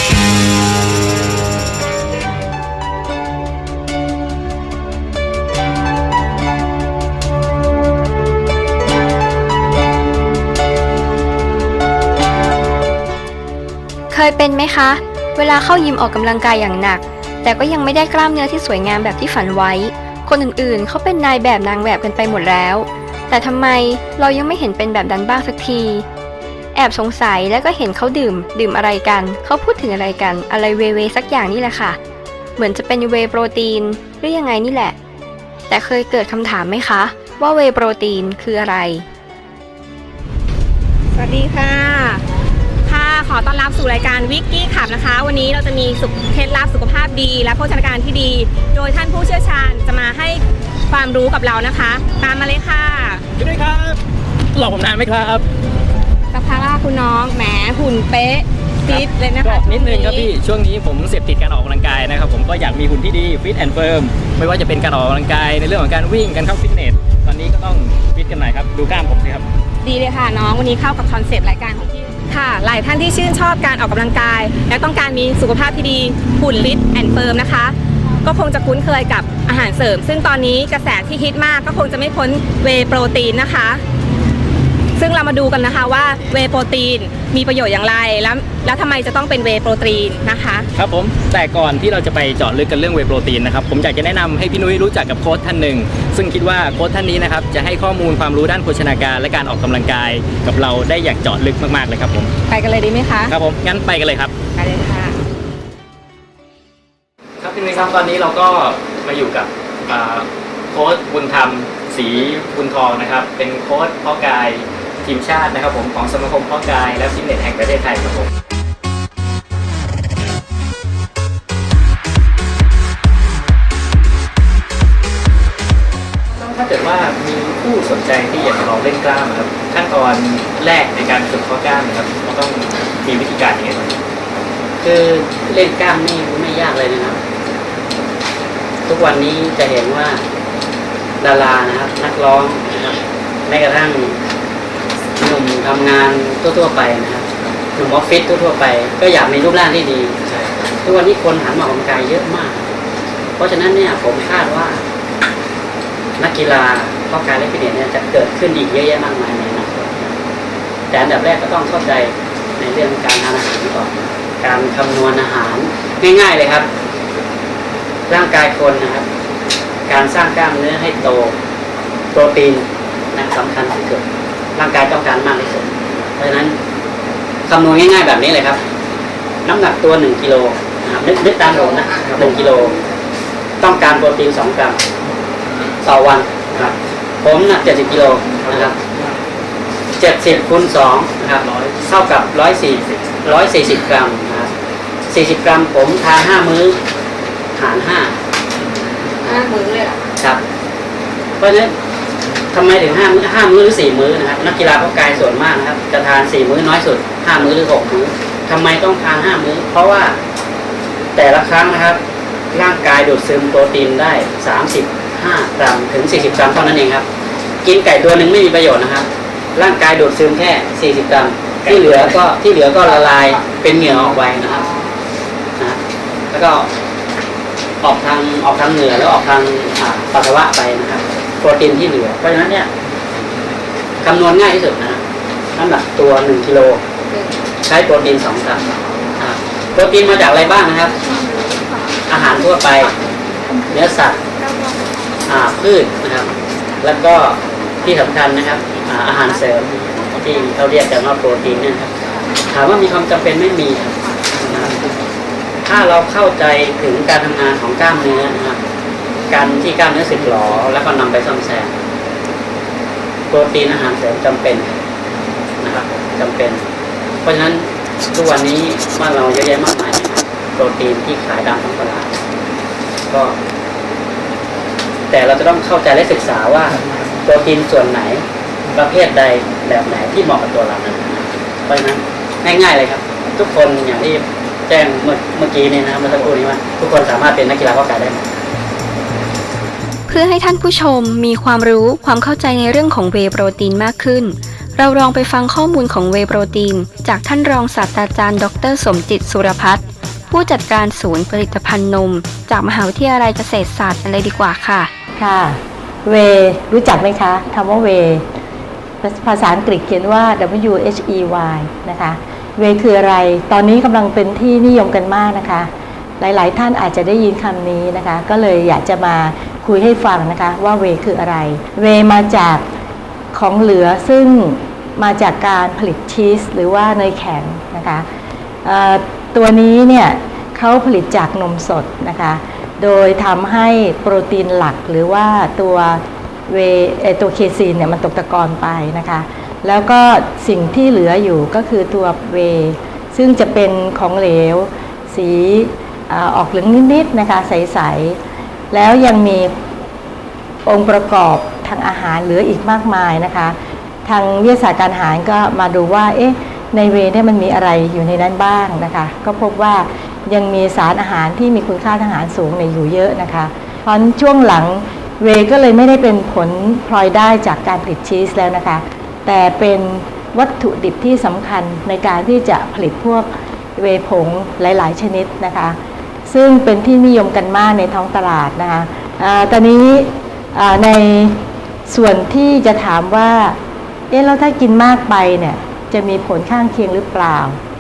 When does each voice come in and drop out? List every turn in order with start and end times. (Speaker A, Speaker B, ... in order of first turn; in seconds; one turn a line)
Speaker A: 14.1-26.1
Speaker A: 26.7-32.0
Speaker A: 32.6-35.0
Speaker A: 35.7-39.0
Speaker B: 41.1-42.2
Speaker B: 42.9-53.2
Speaker C: 53.4-54.0
Speaker C: 54.5-55.4
Speaker B: 56.3-60.3
Speaker C: 58.9-69.5
Speaker B: 69.8-83.8
Speaker B: 85.0-90.7
Speaker C: 90.8-102.3
Speaker B: 102.5-103.3
Speaker C: 103.3-104.3
Speaker B: 104.6-105.1
Speaker C: 107.4-118.3
Speaker C: 126.3-134.0
Speaker D: 134.8-137.2
Speaker D: 138.9-140.2
Speaker D: 141.2-144.2
Speaker D: 145.2-147.2
Speaker D: 147.8-150.2
Speaker D: 150.8-152.7
Speaker D: 153.4-154.8
Speaker D: 156.2-160.1
Speaker D: 160.9-166.7
Speaker D: 168.1-169.1
Speaker D: 169.9-171.3
Speaker D: 172.1-174.0
Speaker D: 174.5-176.6
Speaker D: 177.5-178.6
Speaker D: 179.4-182.7
Speaker D: 183.6-184.8
Speaker D: 185.8-188.7
Speaker D: 190.0-194.5
Speaker C: 191.4-191.8
Speaker D: 195.1-196.8
Speaker D: 197.6-198.2
Speaker D: 201.4-201.7
Speaker D: 202.5-210.2
Speaker D: 211.2-212.0
Speaker D: 212.5-217.1
Speaker D: 217.6-224.7
Speaker D: 226.3-226.7
Speaker D: 227.8-232.7
Speaker D: 234.0-235.0
Speaker D: 235.6-236.8
Speaker D: 237.6-238.7
Speaker D: 239.2-240.9
Speaker D: 242.1-242.9
Speaker D: 243.7-244.2
Speaker D: 245.3-251.9
Speaker D: 252.5-254.8
Speaker D: 255.6-258.6
Speaker D: 259.3-261.7
Speaker D: 263.3-264.8
Speaker D: 265.6-266.6
Speaker D: 267.2-272.2
Speaker D: 273.1-273.4
Speaker D: 275.1-288.3
Speaker A: 290.1-304.9
Speaker E: 305.2-308.2
Speaker E: 309.0-322.6
Speaker E: 323.3-328.0
Speaker E: 328.6-348.2
Speaker E: 348.7-349.5
Speaker E: 350.6-383.6
Speaker E: 384.1-387.6